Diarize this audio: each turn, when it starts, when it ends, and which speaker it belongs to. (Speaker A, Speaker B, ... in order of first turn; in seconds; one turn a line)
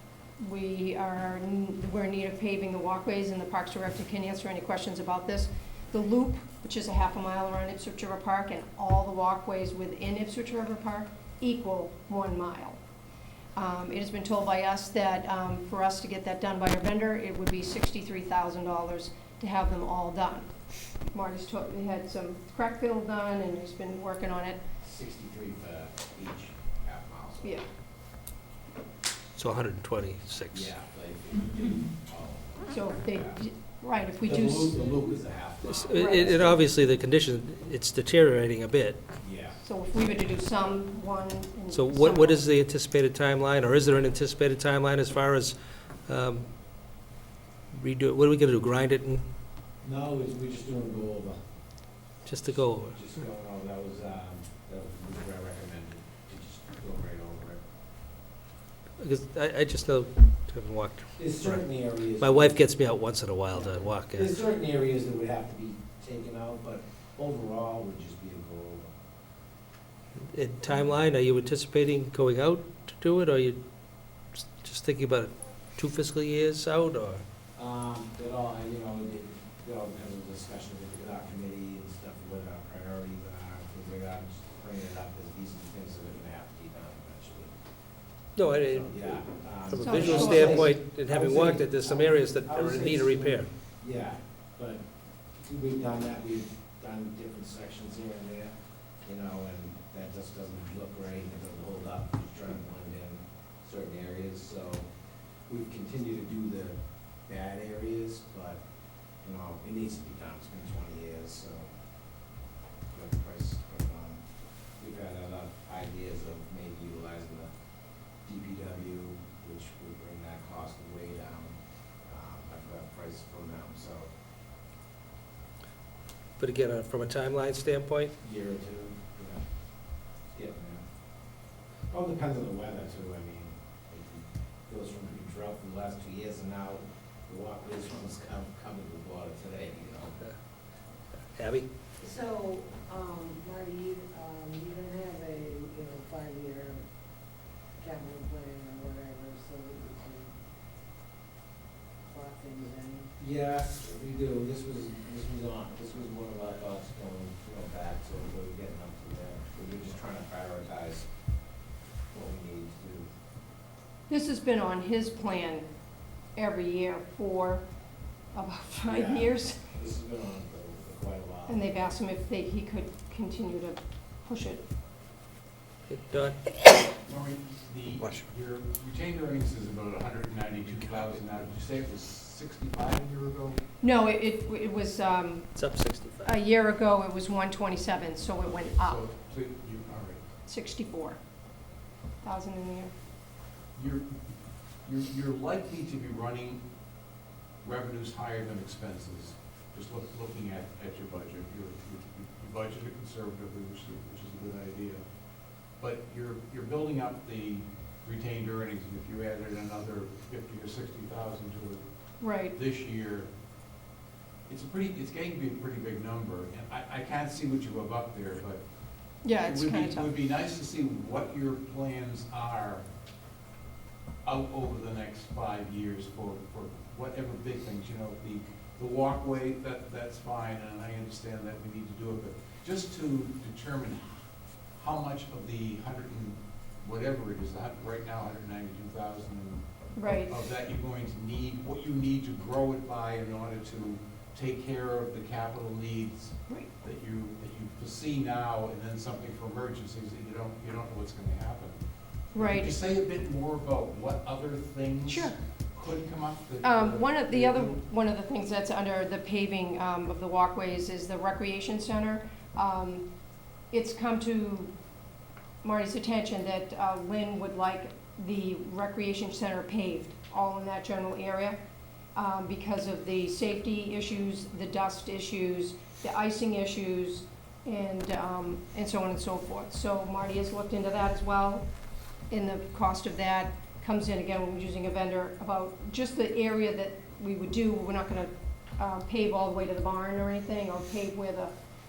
Speaker A: 0.4-12.8
Speaker A: 13.6-20.5
Speaker A: 21.0-24.6
Speaker B: 24.8-27.6
Speaker C: 29.4-30.7
Speaker B: 30.5-33.4
Speaker A: 32.7-34.9
Speaker B: 34.2-36.6
Speaker C: 35.6-39.1
Speaker A: 36.0-36.5
Speaker B: 39.2-39.6
Speaker A: 39.6-42.4
Speaker C: 41.7-45.6
Speaker C: 46.1-46.5
Speaker C: 47.7-49.2
Speaker B: 49.8-51.4
Speaker C: 52.3-53.0
Speaker B: 52.5-57.6
Speaker C: 59.0-61.6
Speaker B: 61.2-62.6
Speaker C: 62.2-64.3
Speaker B: 63.6-68.9
Speaker C: 70.3-73.6
Speaker C: 74.4-77.2
Speaker B: 77.6-87.5
Speaker C: 88.4-89.0
Speaker B: 88.7-94.8
Speaker C: 89.7-93.5
Speaker A: 89.8-90.7
Speaker B: 95.4-98.5
Speaker B: 99.0-104.9
Speaker B: 105.5-106.8
Speaker B: 107.3-108.6
Speaker B: 109.2-111.7
Speaker B: 112.9-114.2
Speaker B: 114.8-117.5
Speaker B: 118.2-124.1
Speaker C: 126.4-128.1
Speaker B: 128.2-129.4
Speaker B: 130.3-130.8
Speaker B: 131.9-140.1
Speaker C: 141.3-141.7
Speaker D: 142.0-146.8
Speaker D: 147.8-150.3
Speaker D: 152.1-153.1
Speaker B: 153.2-161.1
Speaker B: 162.1-163.1
Speaker A: 164.1-165.7
Speaker A: 166.4-167.7
Speaker A: 168.3-169.6
Speaker B: 168.9-171.7
Speaker A: 171.5-174.7
Speaker C: 175.9-176.4
Speaker E: 177.1-183.6
Speaker A: 183.8-185.5
Speaker C: 185.6-186.3
Speaker A: 186.2-189.0
Speaker E: 188.5-190.2
Speaker A: 190.5-191.2
Speaker A: 192.2-192.9
Speaker E: 193.8-194.1
Speaker E: 194.8-196.6
Speaker E: 197.6-205.0
Speaker E: 205.8-211.8
Speaker A: 212.2-212.6
Speaker E: 212.5-213.3
Speaker E: 214.5-218.6
Speaker A: 219.2-220.1
Speaker E: 219.3-222.9
Speaker E: 224.2-234.2
Speaker E: 234.8-251.8
Speaker A: 240.0-240.3
Speaker A: 252.3-252.8
Speaker E: 252.4-257.8
Speaker A: 255.1-255.4
Speaker A: 256.6-263.1
Speaker A: 263.7-264.7
Speaker A: 265.6-271.6
Speaker A: 272.1-281.7
Speaker A: 282.3-291.5